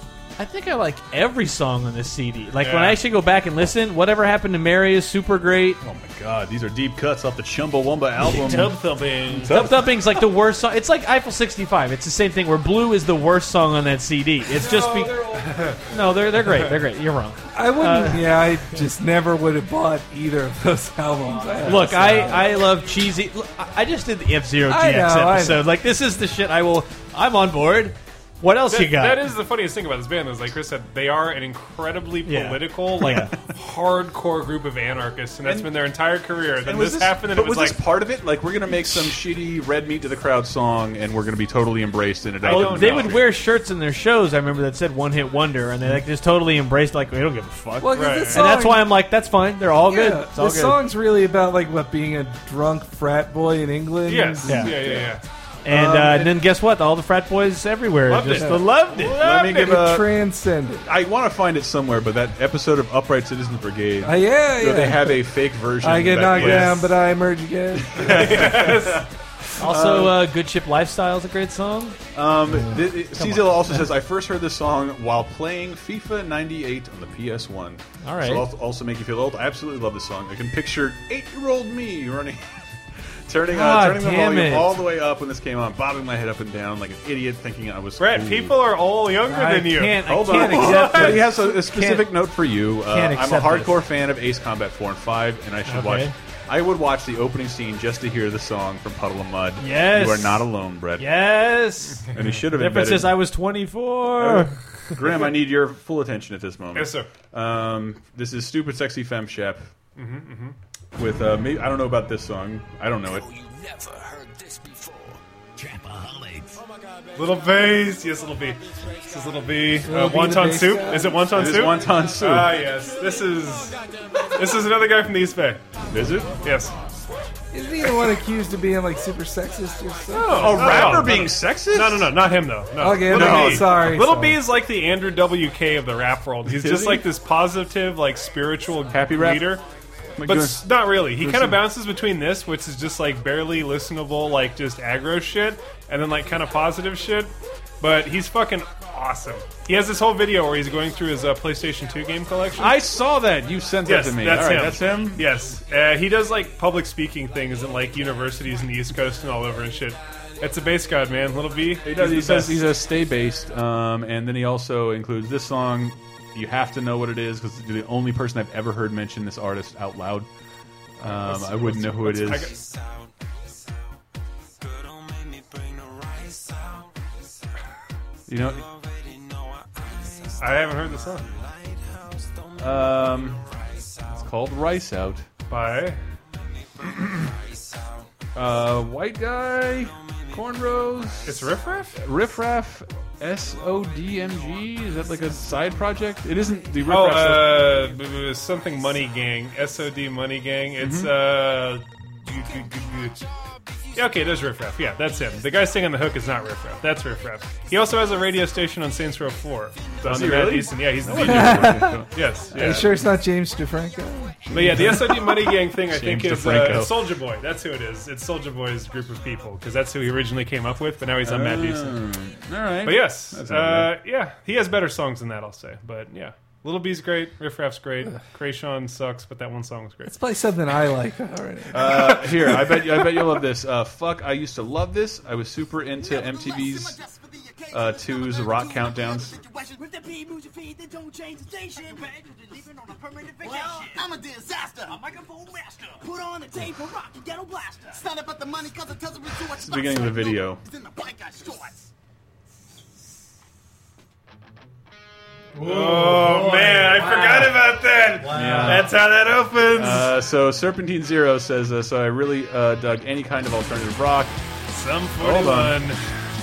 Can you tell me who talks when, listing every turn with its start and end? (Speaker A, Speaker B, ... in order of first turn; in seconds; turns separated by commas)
Speaker A: 0.4-5.8, Speaker B: 2.6-3.0, Speaker C: 5.8-10.2, Speaker B: 8.4-9.5, Speaker A: 9.5-18.5, Speaker B: 14.6-15.8, Speaker D: 17.5-22.6, Speaker A: 21.6-29.3, Speaker D: 24.6-25.6, Speaker B: 28.7-37.8, Speaker A: 32.2-33.3, Speaker C: 35.4-35.7, Speaker C: 36.6-43.3, Speaker B: 42.4-43.2, Speaker A: 42.4-50.8, Speaker D: 47.8-49.0, Speaker B: 47.9-48.5, Speaker D: 49.8-55.1, Speaker B: 54.0-55.2, Speaker A: 54.5-54.8, Speaker A: 55.6-59.2, Speaker D: 55.7-56.4, Speaker C: 58.1-60.1, Speaker B: 58.3-59.7, Speaker D: 59.4-60.9, Speaker C: 60.8-66.9, Speaker D: 64.0-65.2, Speaker D: 65.8-68.7, Speaker B: 66.3-66.8, Speaker C: 67.7-70.2, Speaker B: 68.0-69.0, Speaker A: 69.6-72.0, Speaker C: 72.1-82.7, Speaker A: 72.7-73.8, Speaker A: 78.0-78.5, Speaker C: 83.3-88.6, Speaker A: 83.5-84.7, Speaker B: 88.0-91.3, Speaker A: 89.2-92.2, Speaker C: 90.0-101.1, Speaker A: 92.8-93.8, Speaker A: 95.7-96.1, Speaker A: 99.6-100.5, Speaker A: 101.0-105.0, Speaker C: 102.1-103.2, Speaker C: 104.2-109.7, Speaker B: 106.7-107.1, Speaker B: 110.0-110.6, Speaker C: 111.0-113.3, Speaker E: 113.3-115.2, Speaker B: 117.2-123.8, Speaker D: 119.8-121.3, Speaker C: 121.3-122.6, Speaker B: 124.3-125.6, Speaker C: 125.9-126.4, Speaker B: 126.4-126.7, Speaker D: 127.5-131.1, Speaker B: 130.1-139.6, Speaker C: 130.3-132.1, Speaker D: 132.8-134.4, Speaker C: 133.1-133.8, Speaker C: 136.4-137.1, Speaker C: 138.9-139.6, Speaker C: 140.2-141.6, Speaker B: 140.2-152.8, Speaker C: 152.6-155.3, Speaker B: 153.8-162.7, Speaker C: 161.8-170.3, Speaker C: 171.0-172.6, Speaker B: 171.0-172.7, Speaker C: 178.3-178.7, Speaker B: 180.4-181.3, Speaker C: 182.6-183.4, Speaker C: 184.0-185.2, Speaker B: 185.5-186.0, Speaker C: 186.8-187.3, Speaker C: 188.3-197.8, Speaker B: 191.2-191.9, Speaker B: 196.8-203.2, Speaker C: 200.8-201.1, Speaker B: 203.9-212.9, Speaker C: 210.0-212.9, Speaker D: 211.1-215.2, Speaker C: 214.4-217.0, Speaker B: 214.5-222.0, Speaker C: 221.2-223.9, Speaker B: 222.8-230.2, Speaker D: 230.1-232.6, Speaker C: 231.7-237.0, Speaker C: 237.7-239.4, Speaker E: 240.9-244.2, Speaker E: 244.8-246.1, Speaker E: 246.7-248.0, Speaker C: 249.4-250.6, Speaker A: 255.5-257.6, Speaker B: 255.6-260.1, Speaker A: 258.2-258.9, Speaker C: 258.2-259.0, Speaker C: 259.7-264.4, Speaker B: 264.7-266.0, Speaker C: 265.2-265.9